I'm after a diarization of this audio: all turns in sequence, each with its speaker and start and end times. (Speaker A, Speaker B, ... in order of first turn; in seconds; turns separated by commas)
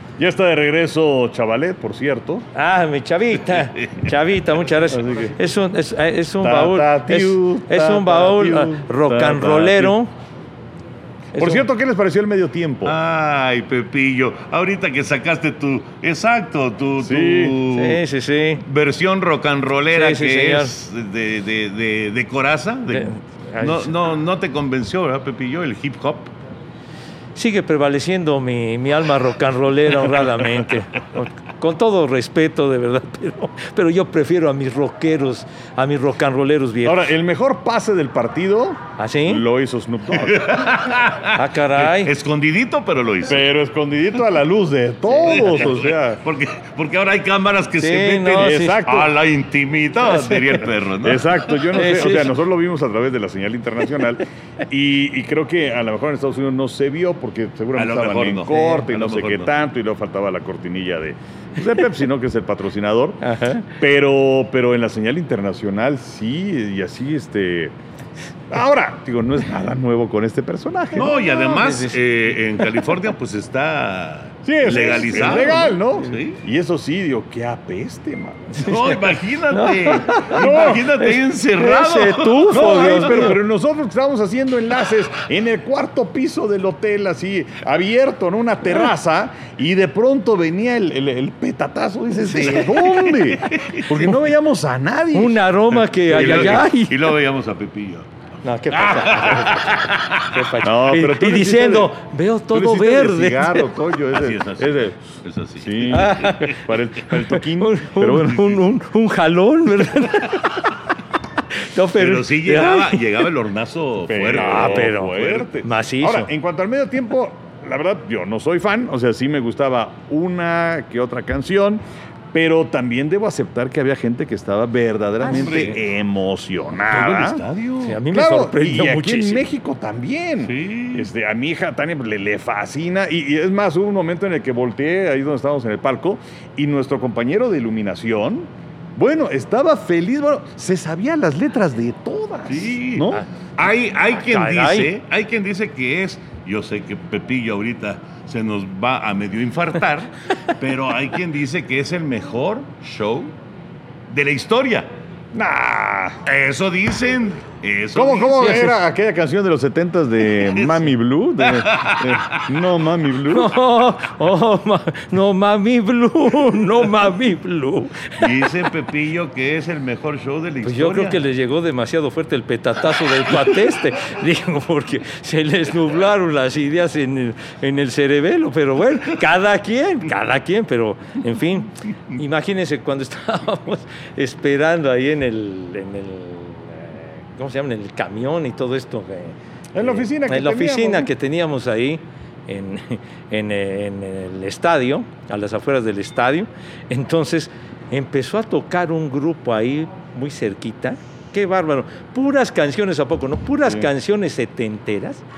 Speaker A: 0.2-2.5, Speaker B: 2.5-10.1, Speaker C: 3.5-4.0, Speaker A: 4.9-5.3, Speaker A: 6.4-9.9, Speaker B: 11.3-11.7, Speaker A: 11.4-12.9, Speaker C: 12.8-18.0, Speaker A: 17.0-17.6, Speaker B: 17.7-18.6, Speaker C: 18.6-26.3, Speaker B: 19.9-20.7, Speaker B: 22.9-23.9, Speaker B: 27.4-37.1, Speaker A: 36.8-40.8, Speaker B: 39.0-39.4, Speaker C: 40.3-43.4, Speaker B: 41.3-42.1, Speaker A: 43.2-46.2, Speaker B: 45.1-45.5, Speaker C: 45.2-51.6, Speaker B: 47.8-49.0, Speaker A: 48.3-49.1, Speaker A: 51.0-63.2, Speaker B: 51.7-52.3, Speaker C: 57.7-59.5, Speaker B: 58.5-58.8, Speaker B: 63.2-63.7, Speaker A: 63.8-67.7, Speaker A: 68.5-71.1, Speaker C: 71.0-76.4, Speaker B: 71.0-72.0, Speaker A: 74.4-78.7, Speaker B: 75.1-75.5, Speaker C: 78.6-83.0, Speaker B: 79.5-83.4, Speaker A: 80.1-80.9, Speaker A: 82.5-95.5, Speaker B: 92.3-92.7, Speaker C: 92.5-94.1, Speaker B: 95.1-97.1, Speaker C: 96.1-98.1, Speaker A: 96.1-96.6, Speaker B: 98.4-103.7, Speaker C: 98.7-100.2, Speaker A: 100.6-101.9, Speaker A: 102.5-105.0, Speaker C: 104.1-106.6, Speaker A: 105.6-108.6, Speaker B: 105.9-106.5, Speaker B: 107.4-110.7, Speaker B: 111.5-113.2, Speaker C: 112.0-115.5, Speaker A: 114.1-121.8, Speaker B: 114.3-116.3, Speaker A: 122.3-127.4, Speaker B: 125.2-125.8, Speaker C: 125.2-125.8, Speaker C: 126.9-128.0, Speaker B: 127.8-129.4, Speaker A: 128.1-143.2, Speaker C: 130.4-131.1, Speaker C: 142.5-153.3, Speaker B: 144.1-144.9, Speaker C: 154.1-154.9, Speaker A: 155.3-156.2, Speaker C: 156.2-158.7, Speaker A: 157.9-163.5, Speaker C: 160.4-160.9, Speaker C: 161.4-162.4, Speaker B: 163.3-168.5, Speaker C: 168.2-171.2, Speaker B: 170.6-205.2, Speaker A: 189.7-191.1